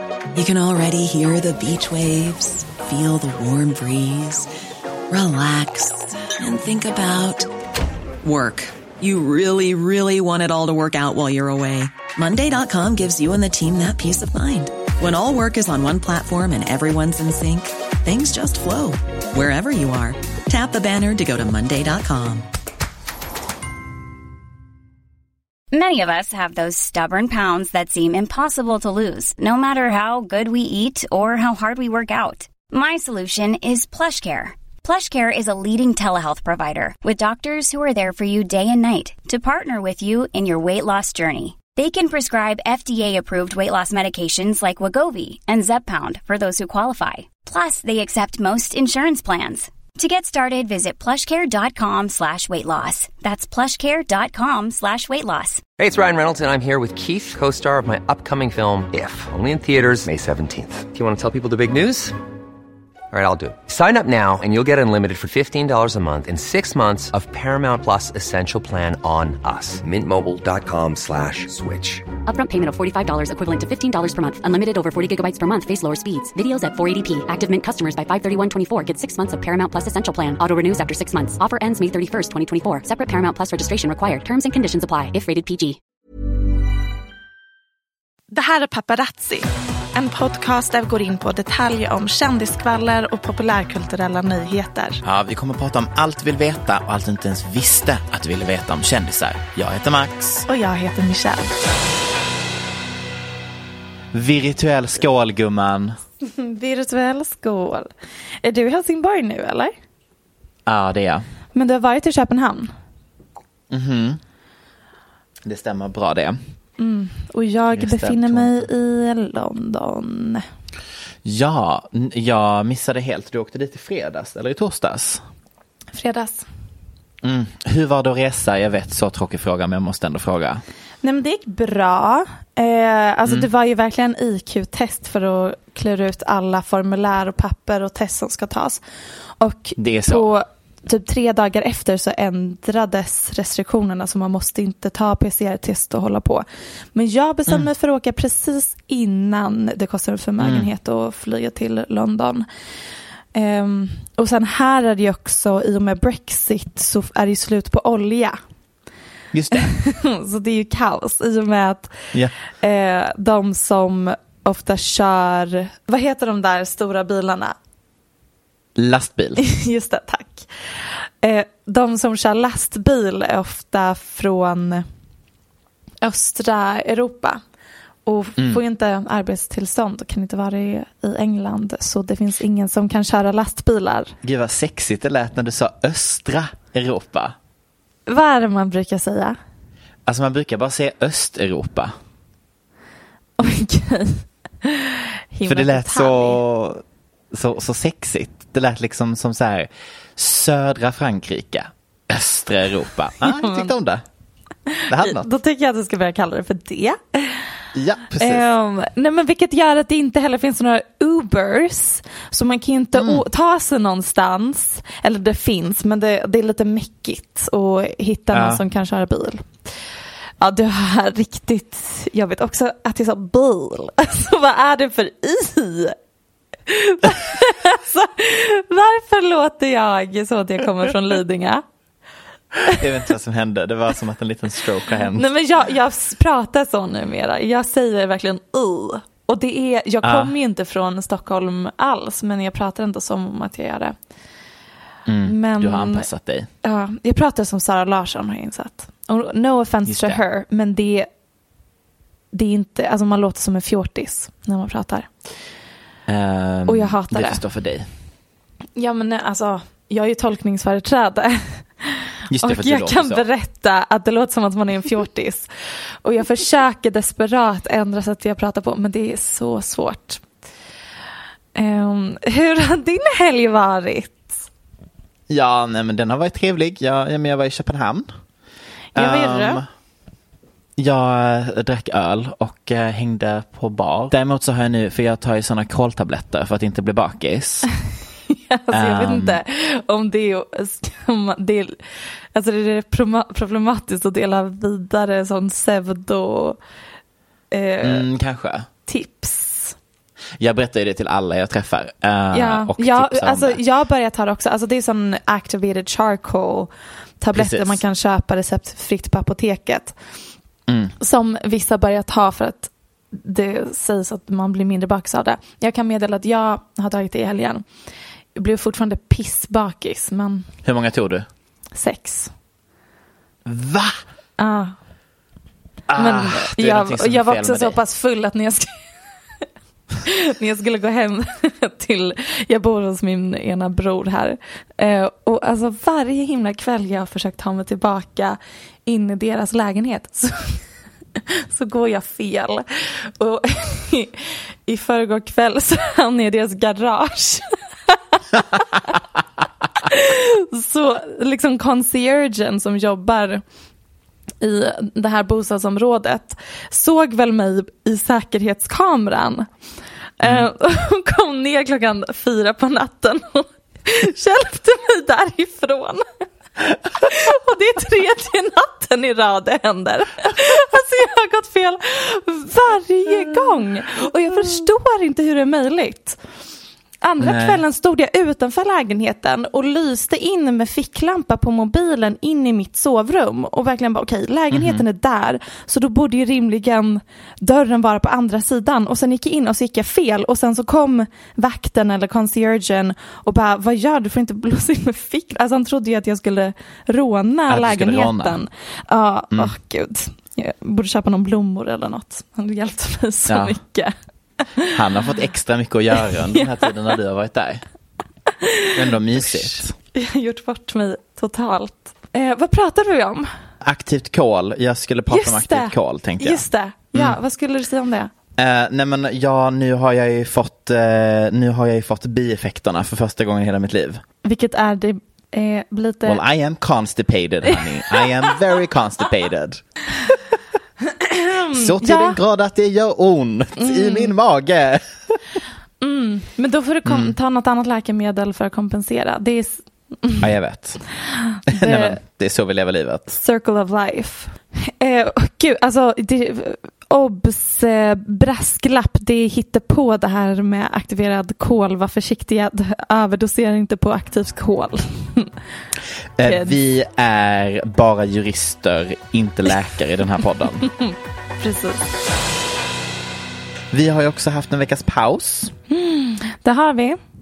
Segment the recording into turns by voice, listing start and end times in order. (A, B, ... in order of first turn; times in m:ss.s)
0:00.3-0:04.5 A
0:05.1-0:07.5 A
0:08.2-0:22.5 A
0:25.7-0:55.6 B
0:55.8-1:02.1 C
1:03.1-1:12.1 C
1:12.2-1:25.8 D
1:28.3-1:35.0 E
1:35.0-1:40.4 F
1:40.5-1:41.5 E
1:44.1-1:46.0 F
1:46.2-1:47.9 E
1:48.4-1:49.8 E
1:50.7-1:51.2 F
1:51.6-1:52.7 E
1:53.7-1:54.2 F
1:55.4-1:56.4 F
1:56.8-2:00.4 E
1:57.7-1:58.7 F
2:01.2-2:05.2 F
2:05.9-2:06.4 E
2:07.2-2:10.6 F
2:11.0-2:18.8 E
2:19.4-2:32.4 E
2:19.8-2:20.3 F
2:30.4-2:30.7 F
2:33.3-2:38.4 E
2:39.3-2:39.7 F
2:39.5-2:47.6 E
2:48.8-2:49.4 F
2:49.4-2:50.5 E
2:51.2-2:54.8 E
2:56.0-2:57.4 E
2:58.1-3:04.2 E
3:04.2-3:07.4 F
3:08.1-3:09.4 E
3:10.1-3:11.9 F
3:13.4-3:16.4 E
3:15.4-3:24.0 F
3:23.2-3:23.7 E
3:24.7-3:27.5 E
3:24.9-3:25.3 F
3:27.8-3:28.4 F
3:28.2-3:39.6 E
3:33.0-3:33.2 F
3:38.3-3:38.6 F
3:40.4-3:46.0 E
3:46.7-3:51.6 E
3:52.6-3:55.3 F
3:55.1-4:03.9 E
4:00.0-4:00.3 F
4:05.1-4:06.5 F
4:05.2-4:06.1 E
4:06.6-4:11.1 E
4:09.8-4:10.2 F
4:12.3-4:15.1 E
4:16.1-4:17.9 F
4:16.7-4:17.4 E
4:18.8-4:25.5 E
4:22.3-4:23.2 F
4:26.0-4:30.2 E
4:31.6-4:34.4 E
4:35.3-4:38.1 F
4:38.9-4:39.6 E
4:38.9-4:39.6 F
4:40.8-4:47.7 F
4:48.3-4:51.8 E
4:48.7-4:49.4 F
4:52.3-4:56.6 E
4:57.5-4:58.1 E
4:57.8-4:58.7 F
4:58.9-4:59.8 E
5:00.4-5:03.6 F
5:02.3-5:10.0 E
5:07.3-5:07.8 F
5:10.7-5:10.9 F
5:11.0-5:17.6 E
5:18.3-5:20.4 E
5:20.6-5:21.3 F
5:21.8-5:22.3 E
5:23.5-5:24.0 F
5:24.4-5:24.8 E
5:25.9-5:27.8 F
5:26.0-5:28.7 E
5:30.0-5:40.6 E
5:41.5-5:48.9 E
5:49.8-5:53.4 E
5:54.4-5:59.5 E
6:00.2-6:06.0 E
6:06.9-6:16.2 E
6:17.0-6:43.9 E
6:17.2-6:17.6 F
6:24.5-6:24.8 F
6:37.5-6:38.4 F
6:43.3-6:43.6 F
6:44.7-6:47.6 F
6:46.0-6:46.7 E
6:48.4-6:53.3 E
6:48.8-6:49.7 F
6:53.6-6:57.2 F
6:55.1-6:58.1 E
6:58.4-7:04.0 F
7:04.2-7:06.2 E
7:06.0-7:10.1 F
7:11.0-7:12.2 E
7:11.5-7:15.2 F
7:13.6-7:14.1 E
7:15.8-7:20.2 E
7:16.9-7:17.1 F
7:20.2-7:20.8 F
7:21.4-7:22.0 E
7:21.5-7:23.2 F
7:23.2-7:35.3 E
7:36.2-7:40.7 F
7:36.2-7:36.6 E
7:41.4-7:41.9 E
7:43.7-7:45.6 F
7:45.7-7:47.0 E